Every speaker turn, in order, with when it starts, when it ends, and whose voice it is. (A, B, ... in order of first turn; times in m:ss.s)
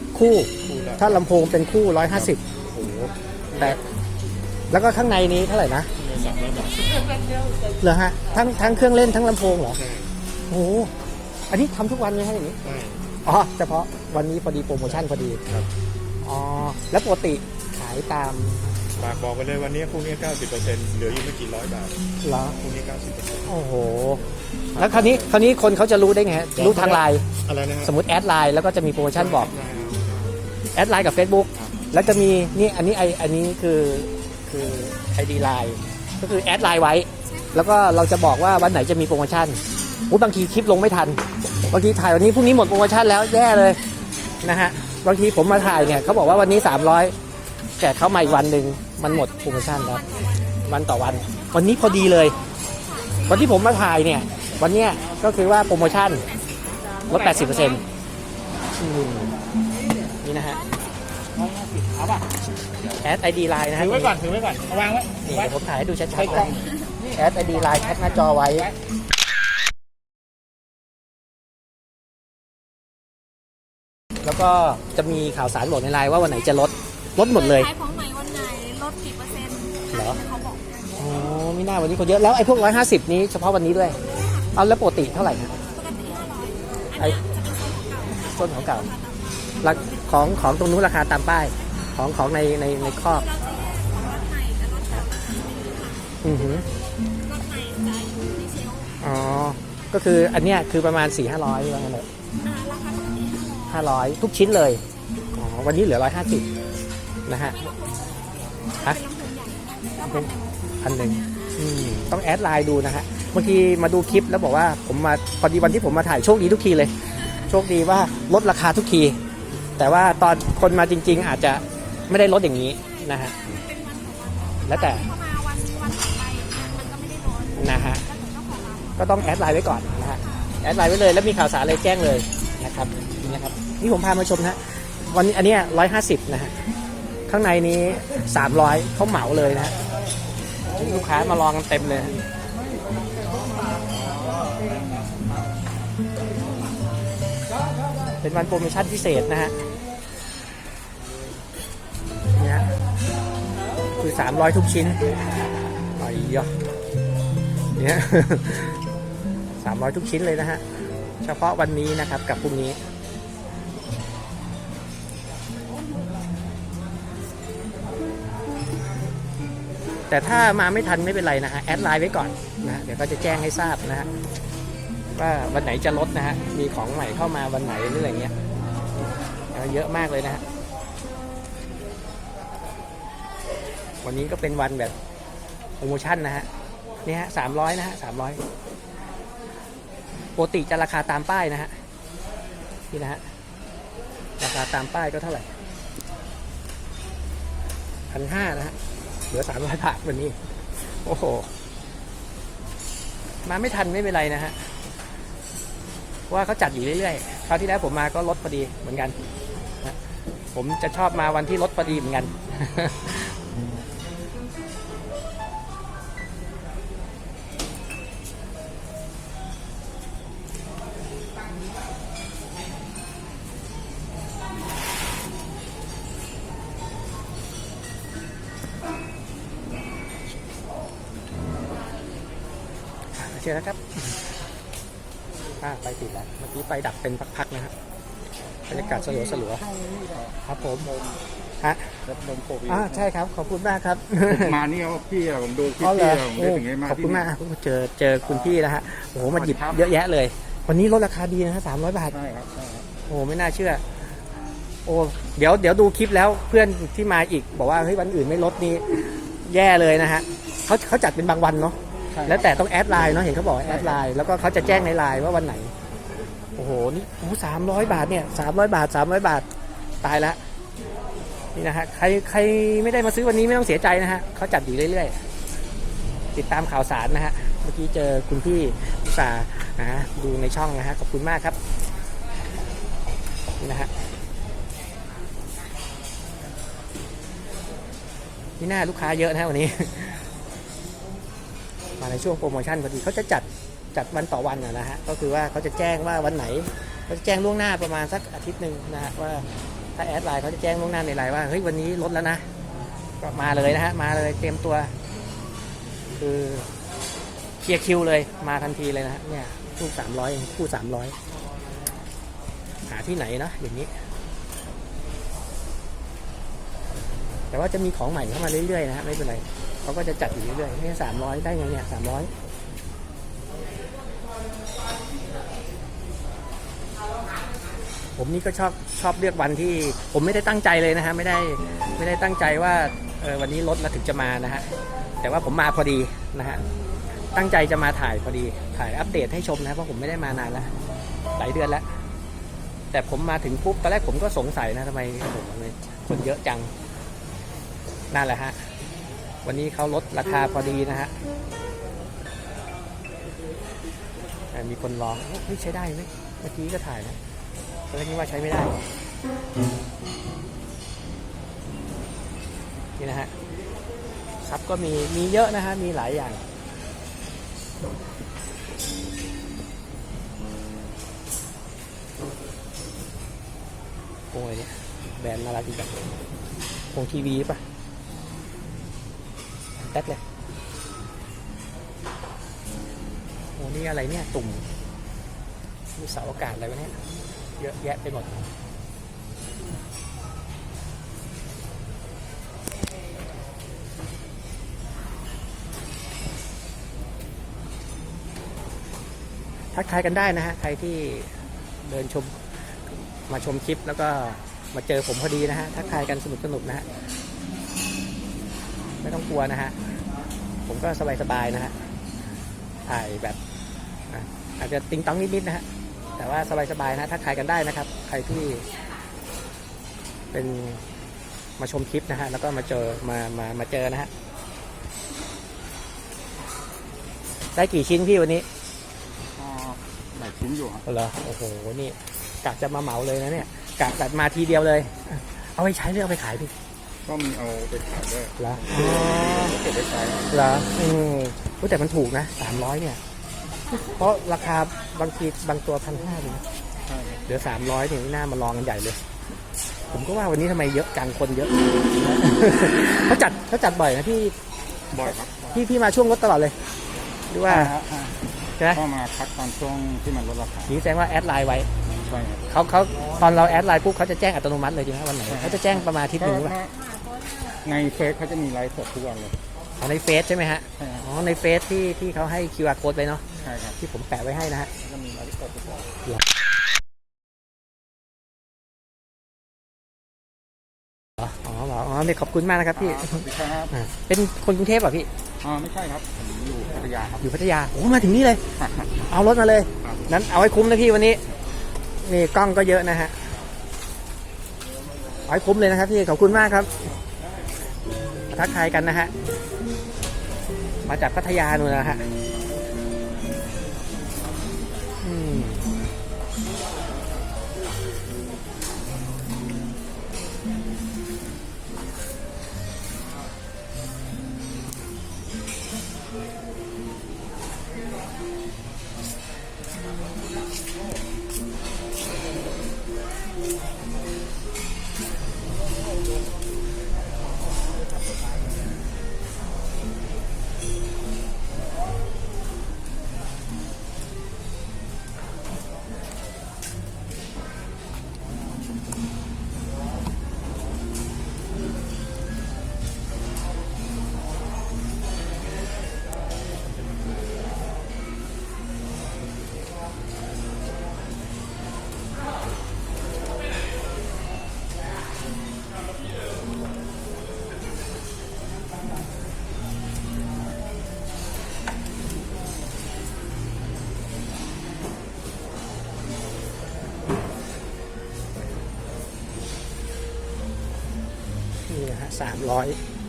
0:00.1-0:02.4 A
0:00.6-0:01.2 B
0:02.1-0:03.8 B
0:04.7-0:05.9 A
0:06.0-0:07.2 B
0:07.8-0:09.8 A
0:09.8-0:10.1 B
0:10.5-0:10.9 A
0:11.5-0:12.6 A
0:12.6-0:13.0 B
0:13.2-0:15.4 A
0:16.2-0:18.8 A
0:19.0-0:22.0 B
0:22.2-0:22.6 A
0:22.6-0:23.5 B
0:23.5-0:24.2 A
0:24.7-0:25.4 B
0:24.8-0:27.3 A
0:26.6-0:27.9 B
0:27.8-0:29.5 A
0:29.2-0:30.4 B
0:30.8-0:43.8 A
0:31.6-0:31.8 B
0:37.2-0:37.8 C
0:39.7-0:40.1 C
0:44.4-0:47.2 A
0:47.8-0:50.1 A
0:49.0-0:53.7 C
0:50.6-0:52.4 A
0:53.3-0:56.3 A
0:56.0-0:57.4 C
0:57.1-0:57.8 A
0:58.7-0:59.3 A
1:00.2-1:00.6 A
1:00.5-1:00.9 C
1:03.0-1:04.2 A
1:04.2-1:05.0 B
1:05.2-1:08.7 A
1:14.2-1:17.7 A
1:16.6-1:21.0 C
1:19.9-1:20.2 A
1:21.0-1:24.0 A
1:24.0-1:24.5 C
1:24.5-1:25.5 A
1:25.6-1:30.1 C
1:28.2-1:28.9 A
1:29.6-1:33.3 A
1:31.6-1:31.9 C
1:32.8-1:36.2 C
1:36.2-1:36.7 A
1:37.0-1:39.0 C
1:39.0-1:42.1 A
1:42.4-1:43.9 C
1:43.7-1:44.8 A
1:44.9-1:45.3 C
1:45.3-1:46.5 A
1:47.3-1:47.7 A
1:47.4-1:51.6 C
1:50.0-1:59.2 A
1:59.8-2:03.4 A
2:02.8-2:09.2 C
2:04.6-2:05.1 A
2:07.6-2:08.0 A
2:09.0-2:16.5 A
2:10.2-2:10.6 C
2:17.3-2:19.8 A
2:20.7-2:22.2 A
2:28.2-2:29.5 A
2:32.4-2:32.7 A
2:34.0-2:35.0 A
2:36.0-2:36.5 A
2:37.7-2:38.8 A
2:39.6-2:40.7 A
2:41.2-2:42.8 A
2:50.1-2:54.1 A
2:55.2-2:58.3 A
2:59.5-3:00.4 A
3:04.0-3:04.9 A
3:05.8-3:06.5 A
3:07.0-3:08.4 A
3:10.4-3:11.8 A
3:12.9-3:13.2 A
3:14.4-3:15.5 A
3:18.1-3:18.8 A
3:19.3-3:20.4 A
3:20.9-3:21.5 A
3:23.4-3:24.6 A
3:26.3-3:29.2 A
3:30.5-3:33.3 A
3:53.1-3:54.1 A
3:55.6-3:57.7 A
3:58.7-3:59.6 A
3:58.7-4:01.2 D
4:00.4-4:00.9 A
4:01.6-4:02.0 A
4:02.0-4:03.1 D
4:02.7-4:04.6 A
4:04.3-4:07.3 D
4:05.8-4:12.2 A
4:08.3-4:08.6 D
4:09.3-4:09.8 D
4:12.1-4:12.9 D
4:13.1-4:13.8 A
4:14.8-4:25.7 A
4:22.1-4:22.5 D
4:26.6-4:29.5 A
4:30.0-4:30.4 A
4:31.6-4:35.2 A
4:36.3-4:41.6 A
4:43.6-4:43.9 A
4:48.6-4:50.2 A
4:52.0-5:02.4 A
5:03.2-5:04.9 A
5:06.2-5:06.7 A
5:07.6-5:11.2 A
5:12.9-5:13.9 A
5:17.5-5:22.3 A
5:28.2-5:34.7 A
5:35.2-5:36.6 A
5:37.3-5:40.7 A
5:41.4-5:41.9 A
5:42.9-5:46.7 A
5:48.1-5:48.6 A
5:49.4-5:51.1 A
5:54.5-5:57.2 A
5:57.9-5:58.8 A
6:03.0-6:03.3 A
6:04.4-6:06.4 A
6:14.3-6:16.0 A
6:16.9-6:17.6 A
6:19.8-6:20.2 A
6:23.6-6:24.7 A
6:26.0-6:27.0 A
6:27.6-6:28.4 A
6:39.7-6:41.3 A
6:41.8-6:42.4 A
6:43.3-6:46.8 A
6:49.0-6:49.8 A
6:50.7-6:51.8 A
6:52.9-6:53.4 A
6:54.1-6:55.6 A
6:56.2-6:58.7 A
7:00.3-7:00.8 A
7:01.6-7:04.1 A
7:07.6-7:08.5 A
7:09.4-7:10.8 D
7:10.9-7:16.5 A
7:17.1-7:20.4 D
7:18.4-7:19.6 A
7:20.3-7:23.0 A
7:23.9-7:26.4 A
7:26.8-7:27.2 D
7:27.3-7:29.0 A
7:29.9-7:34.4 A
7:34.9-7:35.6 D
7:35.5-7:36.6 A
7:37.3-7:37.7 A
7:37.5-7:40.8 D
7:40.7-7:41.7 A
7:42.1-7:42.5 D
7:42.5-7:46.6 A
7:45.3-7:46.8 D
7:47.4-7:49.4 D
7:49.8-7:53.2 A
7:50.8-7:51.0 D
7:53.4-7:53.8 D
7:53.8-7:54.7 A
7:54.8-7:55.9 D
8:01.2-8:05.1 A
8:02.8-8:03.7 D
8:05.4-8:07.2 D
8:07.2-8:08.4 A
8:08.6-8:08.9 D
8:09.0-8:11.2 A
8:12.0-8:13.2 A
8:15.3-8:16.7 A
8:18.3-8:19.1 A
8:20.9-8:22.0 A
8:25.0-8:25.6 A
9:31.7-9:32.8 A